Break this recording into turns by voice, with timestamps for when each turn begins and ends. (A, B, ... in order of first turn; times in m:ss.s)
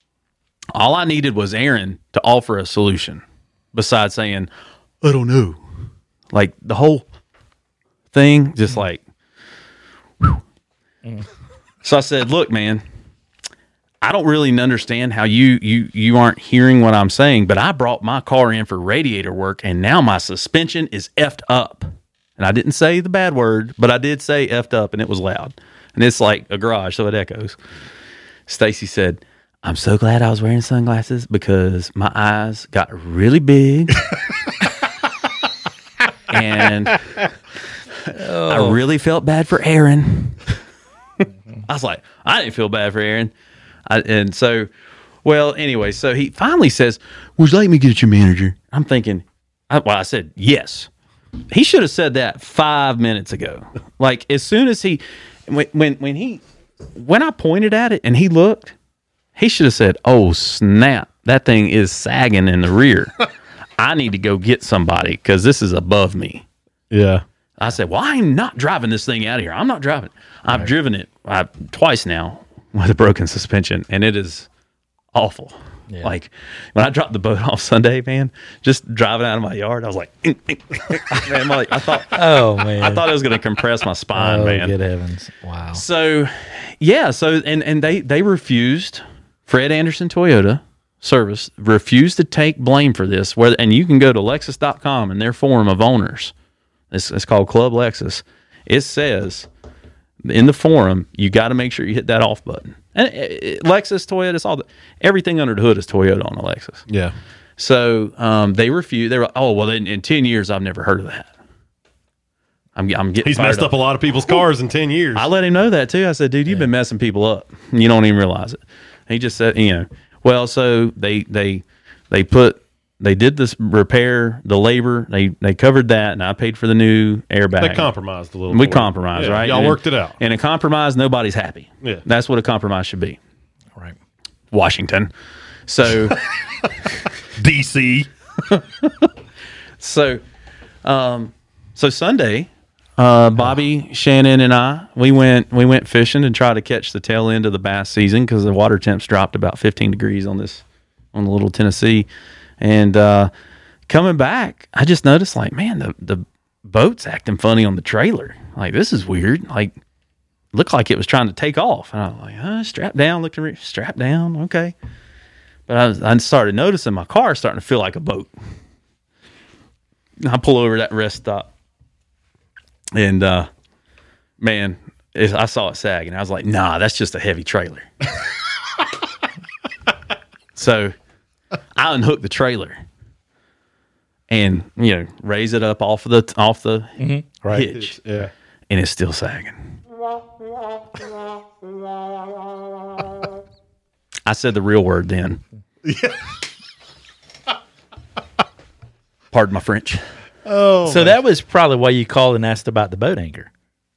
0:00.7-0:03.2 A
0:03.7-0:04.5 A
0:05.0-0:05.6 A
0:06.3-0:07.0 A
0:08.1-0:09.0 A
0:11.8-0:12.8 A
0:14.0-0:27.6 A
0:28.5-0:34.1 A
0:36.3-0:37.0 A
0:38.1-0:40.5 A
0:38.1-0:38.8 B
0:41.7-0:43.3 A
0:43.9-0:44.7 A
0:45.2-0:50.9 A
0:51.5-0:56.4 A
0:56.9-0:58.7 A
0:59.4-1:03.2 A
1:03.8-1:06.4 A
1:06.9-1:07.2 C
1:07.6-1:14.5 A
1:15.1-1:24.7 A
1:22.1-1:23.1 B
1:24.1-1:25.8 B
1:25.7-1:36.3 A
1:36.9-1:39.5 A
1:40.2-1:46.8 A
1:46.9-1:47.1 C
1:47.6-1:51.3 A
1:52.8-1:53.7 A
1:53.2-1:55.3 C
1:55.1-2:07.9 A
2:07.6-2:10.2 C
2:08.5-2:13.2 A
2:14.5-2:15.1 A
2:15.7-2:16.2 A
2:17.4-2:18.1 C
2:18.5-2:19.1 A
2:19.8-2:20.2 A
2:20.8-2:30.6 A
2:31.1-2:32.1 A
2:32.6-2:33.3 A
2:33.9-2:39.7 A
2:40.5-2:44.7 A
2:45.7-2:48.3 A
2:50.2-2:51.5 A
2:52.9-2:53.5 A
2:54.4-2:57.9 A
3:00.5-3:00.9 A
3:01.8-3:02.8 A
3:04.3-3:08.0 A
3:07.0-3:07.7 B
3:07.6-3:08.3 C
3:08.7-3:09.6 A
3:14.2-3:15.4 A
3:15.8-3:16.2 C
3:19.3-3:20.0 A
3:20.4-3:21.2 C
3:20.8-3:23.5 B